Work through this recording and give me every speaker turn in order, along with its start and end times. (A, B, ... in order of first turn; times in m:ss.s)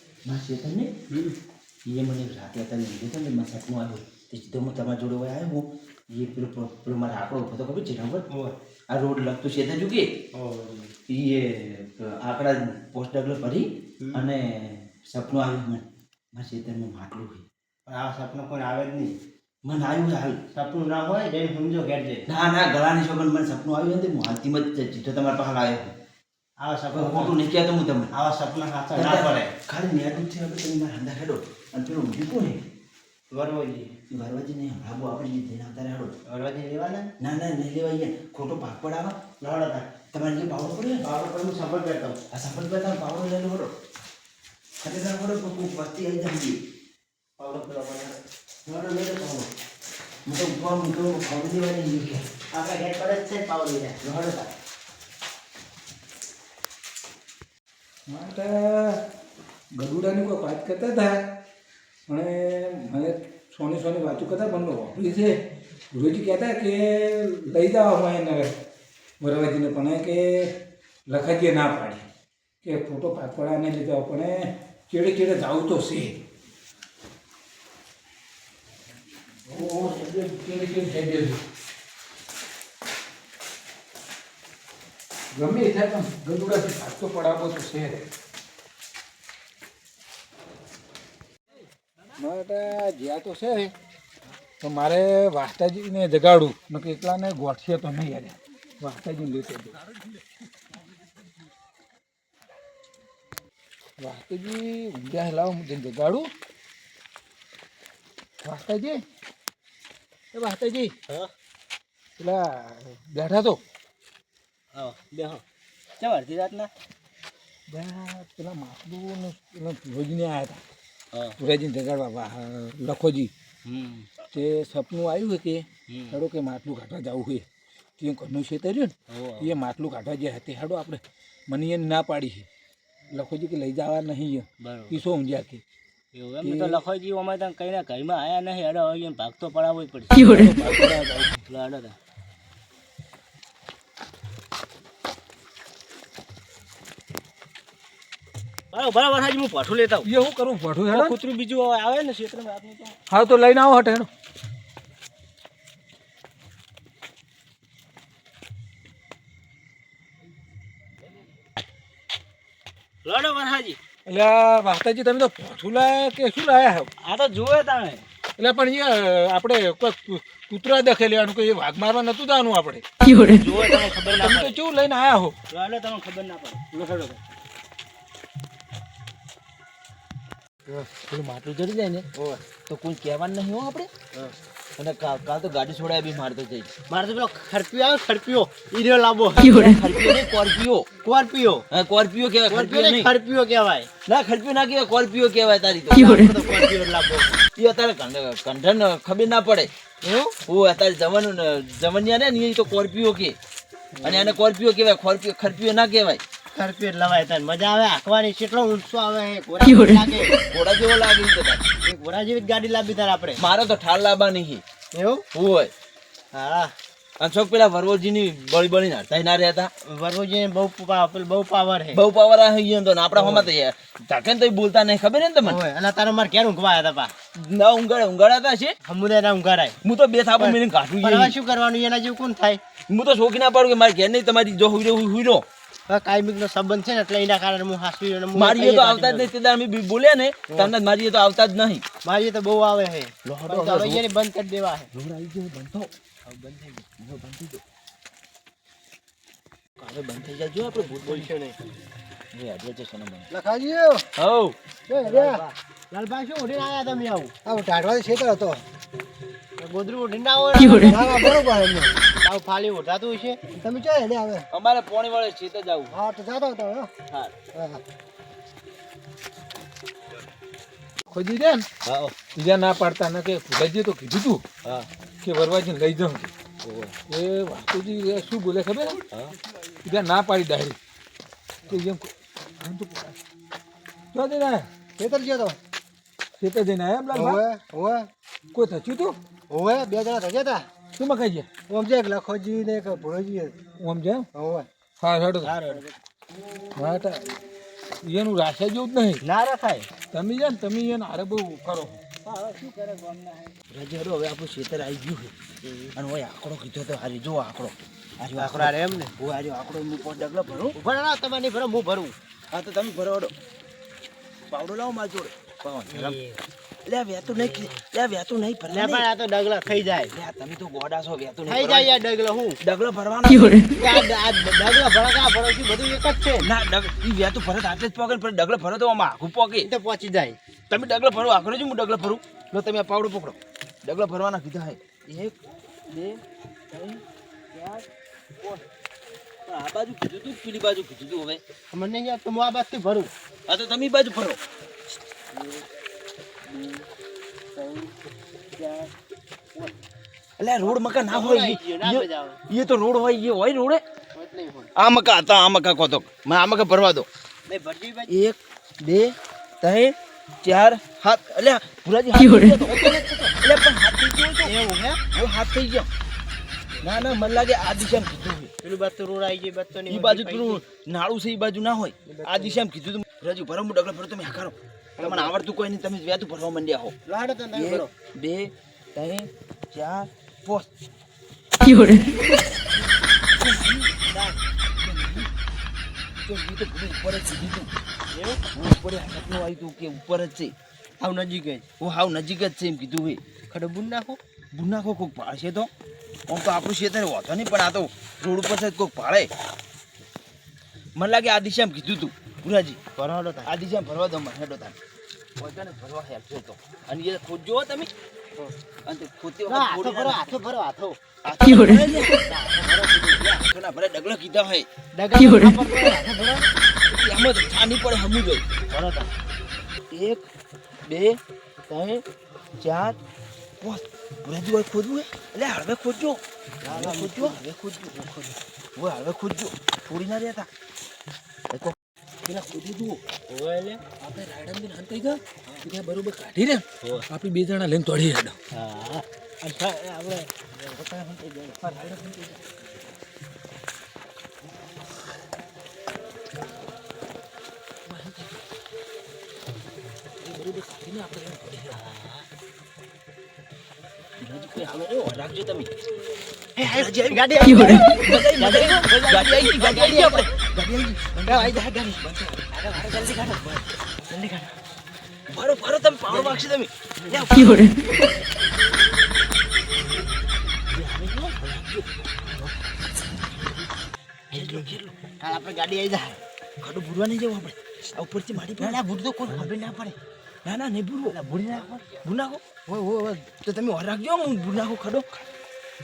0:00.3-0:00.9 A
0:01.8-0:08.2 A
0:08.3-0:08.5 B
0:08.9-0:10.1 A
0:10.3-0:10.9 B
0:11.1-0:17.4 A
0:14.0-0:14.3 B
0:17.9-0:19.2 B
0:19.6-0:20.4 A
0:20.5-0:22.2 B
0:22.3-0:25.9 A
0:26.6-0:27.3 B
0:26.9-0:28.1 A
0:28.1-0:29.5 B
0:28.9-0:32.6 A
0:33.3-0:33.9 B
0:34.1-0:36.1 A
0:36.3-0:37.1 B
0:37.2-0:39.2 A
0:39.4-0:39.9 B
0:40.1-0:41.0 A
0:41.0-0:42.2 B
0:42.3-0:43.7 A
0:44.8-0:46.6 A
0:47.4-0:49.5 B
0:50.3-0:52.2 A
0:52.5-0:54.0 B
0:54.0-0:54.5 A
0:58.1-0:59.0 C
0:59.8-1:01.2 C
1:02.1-1:05.4 C
1:05.9-1:08.5 C
1:09.2-1:10.5 C
1:11.1-1:12.1 C
1:12.6-1:16.2 C
1:19.5-1:21.4 C
1:25.3-1:28.0 C
1:32.2-1:33.7 C
1:34.6-1:39.7 C
1:44.0-1:46.3 C
1:48.4-1:49.0 C
1:50.3-1:50.9 C
1:52.2-1:53.6 C
1:54.7-1:55.4 B
1:56.0-1:56.7 B
1:57.7-2:00.6 C
2:01.4-2:03.3 C
2:03.7-2:04.0 A
2:04.3-2:07.4 C
2:08.0-2:12.5 C
2:13.1-2:15.6 C
2:14.6-2:14.9 B
2:16.1-2:22.0 B
2:16.4-2:16.8 C
2:28.7-2:30.1 B
2:30.0-2:31.1 C
2:30.9-2:33.0 B
2:33.1-2:34.1 C
2:43.0-2:43.8 B
2:44.1-2:46.9 C
2:47.0-2:48.0 B
2:48.4-2:52.8 C
2:53.0-2:54.6 B
2:54.1-2:55.4 C
2:55.5-2:56.6 B
2:56.7-2:57.2 C
3:01.0-3:02.1 A
3:02.7-3:03.9 A
3:04.8-3:06.7 A
3:06.9-3:09.5 B
3:09.4-3:10.9 A
3:11.0-3:11.6 B
3:11.7-3:13.1 A
3:12.5-3:13.9 B
3:14.1-3:16.2 A
3:15.9-3:17.4 B
3:17.6-3:19.7 A
3:20.0-3:20.3 B
3:20.5-3:23.4 A
3:24.0-3:24.4 B
3:24.0-3:26.2 A
3:26.5-3:30.4 B
3:30.5-3:31.6 A
3:31.9-3:33.4 B
3:33.4-3:34.6 A
3:34.9-3:35.2 B
3:35.3-3:35.7 A
3:36.3-3:36.7 B
3:37.2-3:39.7 A
3:39.9-3:42.0 B
3:41.9-3:45.6 A
3:43.2-3:43.5 B
3:45.4-3:47.1 B
3:47.4-3:48.8 A
3:48.9-3:49.8 B
3:49.8-3:51.3 A
3:50.4-3:52.6 B
3:52.9-3:55.4 A
3:55.9-3:59.3 B
3:58.3-4:01.8 A
4:02.0-4:04.9 B
4:03.2-4:04.0 A
4:04.9-4:05.9 A
4:06.3-4:06.8 B
4:07.0-4:07.6 A
4:09.8-4:11.3 A
4:11.0-4:11.6 B
4:12.3-4:13.3 A
4:13.3-4:14.0 D
4:14.2-4:14.6 A
4:14.9-4:15.4 D
4:14.9-4:17.3 B
4:17.4-4:18.6 D
4:19.6-4:21.2 B
4:20.8-4:21.9 D
4:22.2-4:23.6 B
4:23.6-4:24.5 D
4:24.5-4:25.9 A
4:25.9-4:26.9 D
4:27.6-4:27.8 D
4:31.1-4:31.7 C
4:31.8-4:32.1 A
4:32.4-4:34.4 C
4:35.2-4:36.3 C
4:36.6-4:36.9 A
4:37.1-4:39.0 C
4:39.8-4:40.8 C
4:41.7-4:43.2 C
4:44.1-4:44.7 C
4:45.0-4:45.6 D
4:46.4-4:47.4 C
4:47.1-4:48.1 D
4:48.5-4:49.2 C
4:49.5-4:50.6 B
4:49.8-4:50.5 D
4:51.0-4:51.5 C
4:51.7-4:53.5 D
4:53.8-4:54.3 C
4:54.4-4:54.7 D
4:55.0-4:55.5 C
4:55.4-4:55.9 B
4:56.8-4:57.3 C
4:58.0-4:59.2 C
4:59.2-4:59.9 B
5:00.1-5:02.0 C
5:02.2-5:03.6 B
5:03.7-5:05.4 A
5:05.6-5:05.9 B
5:06.0-5:10.8 A
5:08.4-5:09.1 B
5:10.8-5:12.1 B
5:12.5-5:13.3 A
5:14.5-5:16.2 A
5:15.9-5:16.4 B
5:16.9-5:19.0 A
5:18.7-5:20.1 B
5:20.1-5:21.9 A
5:21.5-5:22.6 B
5:22.6-5:23.7 A
5:23.7-5:26.5 B
5:26.4-5:29.7 A
5:29.6-5:30.4 B
5:30.7-5:35.3 A
5:35.9-5:36.2 A
5:36.7-5:37.0 A
5:39.5-5:41.4 A
5:41.7-5:43.1 B
5:43.5-5:44.4 A
5:45.4-5:45.6 B
5:46.5-5:46.8 B
5:47.6-5:47.9 B
5:48.6-5:48.9 B
5:50.4-5:53.8 A
5:50.6-5:52.4 B
5:54.2-5:54.7 B
5:54.8-5:57.1 A
5:57.5-5:58.1 B
5:58.1-6:02.7 A
6:02.6-6:03.3 B
6:03.4-6:04.5 A
6:04.4-6:05.0 B
6:05.1-6:05.9 A
6:06.8-6:07.3 B
6:06.8-6:08.5 A
6:08.6-6:10.6 B
6:09.9-6:16.9 A
6:12.1-6:12.6 B
6:15.0-6:15.3 B
6:17.1-6:17.9 B
6:17.5-6:20.7 A
6:21.6-6:22.6 A
6:23.4-6:25.3 A
6:26.2-6:27.7 A
6:28.1-6:28.4 B
6:28.5-6:30.5 A
6:31.0-6:31.6 B
6:31.8-6:33.2 A
6:33.5-6:34.2 B
6:34.5-6:35.7 A
6:36.3-6:39.3 A
6:41.0-6:42.8 A
6:43.0-6:43.5 B
6:43.4-6:44.8 A
6:45.4-6:47.9 A
6:48.9-6:50.3 A
6:49.5-6:51.0 B
6:51.2-6:52.2 A
6:52.3-6:53.2 B
6:53.2-6:54.7 A
6:54.9-6:56.5 B
6:56.8-6:58.4 A
6:58.7-6:59.1 B
6:59.9-7:00.2 A
7:00.9-7:01.2 A
7:01.7-7:02.0 A
7:02.6-7:03.0 A
7:03.6-7:07.9 A
7:06.6-7:08.4 B
7:08.8-7:10.5 A
7:12.2-7:13.0 C
7:13.3-7:13.8 B
7:14.0-7:18.4 C
7:18.5-7:20.4 B
7:20.7-7:21.4 A
7:21.6-7:22.5 C
7:27.9-7:28.2 A
7:30.2-7:31.8 A
7:31.7-7:32.2 B
7:34.2-7:35.7 A
7:36.6-7:40.3 B
7:36.7-7:42.5 A
7:41.2-7:42.0 B
7:42.5-7:44.5 B
7:45.3-7:48.0 A
7:46.1-7:46.4 B
7:50.7-7:52.5 A
7:54.3-7:55.0 A
7:54.3-7:56.2 B
7:56.6-7:58.8 A
7:58.6-8:00.0 B
8:00.4-8:01.2 A
8:01.1-8:01.9 B
8:02.0-8:02.5 A
8:02.7-8:03.2 B
8:03.3-8:05.3 A